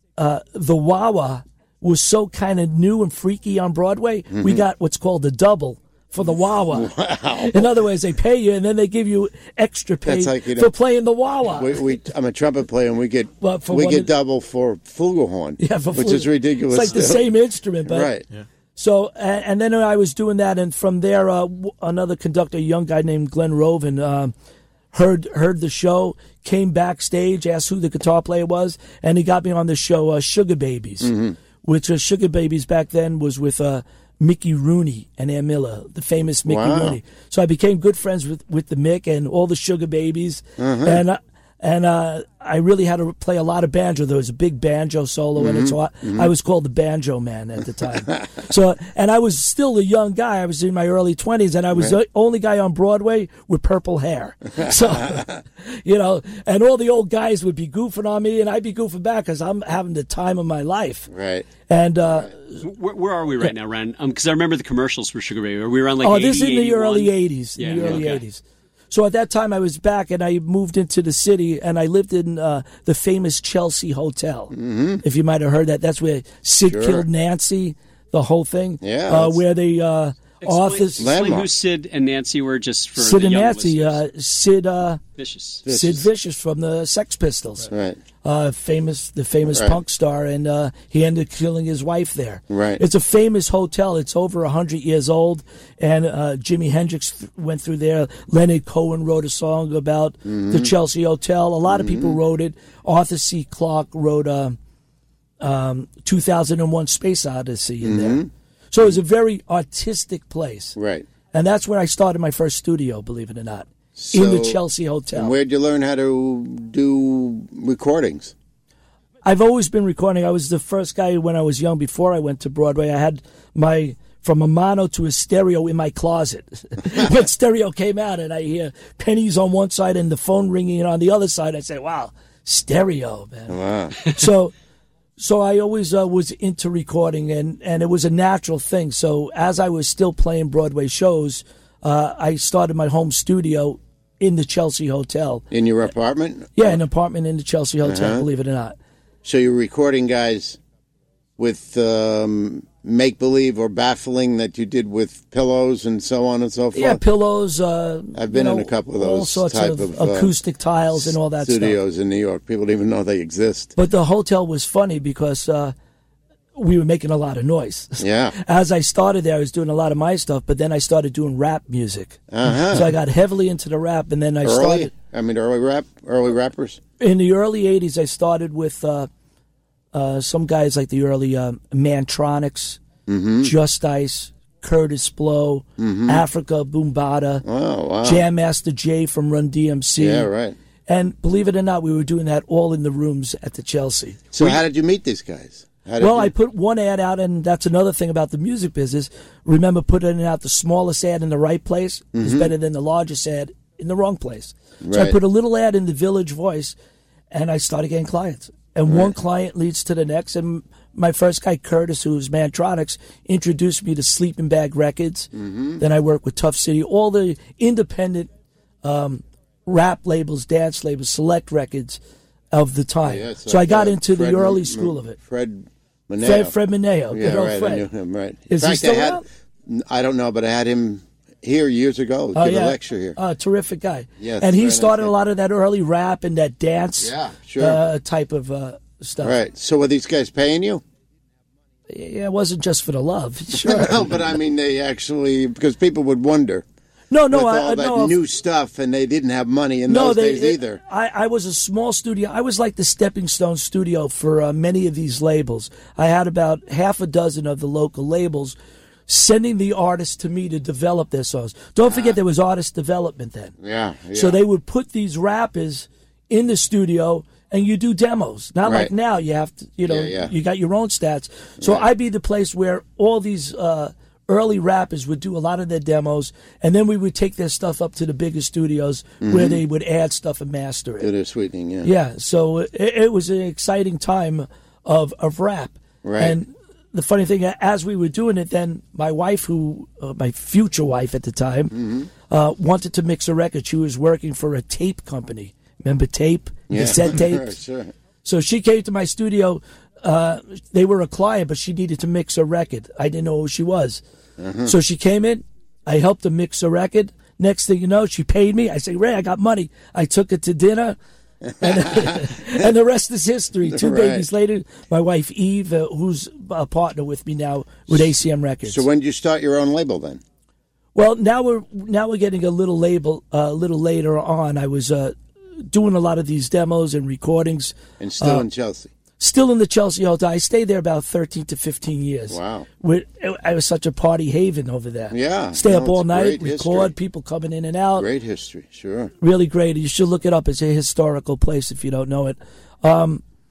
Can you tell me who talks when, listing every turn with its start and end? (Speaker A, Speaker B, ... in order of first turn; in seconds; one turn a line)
Speaker A: 0.2-11.8
Speaker B: 4.3-4.6
Speaker B: 6.3-7.8
Speaker B: 10.1-10.8
Speaker B: 11.5-18.2
Speaker A: 13.4-14.1
Speaker A: 15.6-18.1
Speaker A: 18.8-24.3
Speaker A: 24.9-61.1
Speaker B: 31.0-31.4
Speaker B: 36.5-37.0
Speaker B: 40.6-41.0
Speaker B: 45.4-46.3
Speaker B: 54.7-55.3
Speaker B: 61.1-61.5
Speaker A: 61.7-62.6
Speaker C: 62.6-68.2
Speaker A: 66.0-81.2
Speaker B: 67.8-68.0
Speaker B: 74.5-75.0
Speaker B: 76.7-77.1
Speaker B: 78.8-79.4
Speaker C: 80.4-84.0
Speaker B: 81.0-81.5
Speaker A: 83.0-85.0
Speaker C: 85.2-85.6
Speaker B: 85.7-86.1
Speaker A: 85.7-87.7
Speaker B: 87.7-88.0
Speaker A: 88.2-104.6
Speaker B: 89.5-89.8
Speaker B: 92.5-92.8
Speaker B: 100.2-100.7
Speaker B: 101.7-102.2
Speaker A: 105.4-110.8
Speaker B: 107.8-108.3
Speaker B: 110.8-111.1
Speaker A: 111.3-115.3
Speaker B: 114.0-114.6
Speaker B: 115.1-118.3
Speaker A: 119.2-134.5
Speaker B: 133.5-134.0
Speaker A: 135.2-145.5
Speaker B: 145.5-146.8
Speaker A: 146.6-148.8
Speaker B: 147.8-148.3
Speaker B: 149.2-150.6
Speaker B: 151.4-157.0
Speaker A: 156.7-161.8
Speaker B: 158.1-160.3
Speaker B: 160.9-163.7
Speaker A: 163.8-165.7
Speaker A: 166.6-174.9
Speaker B: 168.0-168.3
Speaker B: 172.3-172.9
Speaker B: 174.4-176.8
Speaker A: 177.0-179.1
Speaker A: 179.9-182.8
Speaker B: 183.1-183.5
Speaker A: 183.4-187.4
Speaker B: 185.8-186.2
Speaker B: 187.4-188.2
Speaker A: 188.0-190.3
Speaker B: 190.0-190.6
Speaker A: 190.9-194.6
Speaker B: 194.3-196.3
Speaker A: 196.0-206.8
Speaker B: 202.2-202.5
Speaker B: 204.8-205.2
Speaker A: 207.3-218.3
Speaker B: 208.9-209.1
Speaker B: 215.3-215.8
Speaker A: 218.8-222.0
Speaker A: 222.5-225.2
Speaker B: 223.0-226.5
Speaker A: 226.2-227.9
Speaker B: 227.1-233.2
Speaker A: 228.5-229.2
Speaker A: 232.3-239.4
Speaker B: 234.2-235.1
Speaker B: 237.0-237.8
Speaker B: 239.2-240.8
Speaker A: 241.9-244.2
Speaker B: 243.5-246.7
Speaker A: 247.1-248.2
Speaker B: 247.3-250.8
Speaker A: 249.9-258.6
Speaker A: 259.1-263.6
Speaker B: 261.9-262.2
Speaker B: 263.6-264.4
Speaker A: 264.1-281.1
Speaker B: 268.6-268.9
Speaker B: 269.9-270.3
Speaker B: 271.6-271.9
Speaker B: 279.2-279.6
Speaker B: 281.0-281.9
Speaker A: 281.8-297.6
Speaker B: 286.0-286.4
Speaker B: 291.8-292.1
Speaker B: 296.7-297.9
Speaker A: 298.2-304.0
Speaker B: 304.4-304.7
Speaker A: 304.6-311.0
Speaker A: 311.6-318.9
Speaker B: 311.6-312.3
Speaker B: 313.7-314.3
Speaker B: 318.7-320.2
Speaker A: 320.9-325.1
Speaker A: 325.7-328.5
Speaker B: 328.0-328.9
Speaker A: 329.2-338.1
Speaker B: 332.3-332.7
Speaker B: 335.1-336.9
Speaker B: 338.0-339.1
Speaker A: 339.2-343.2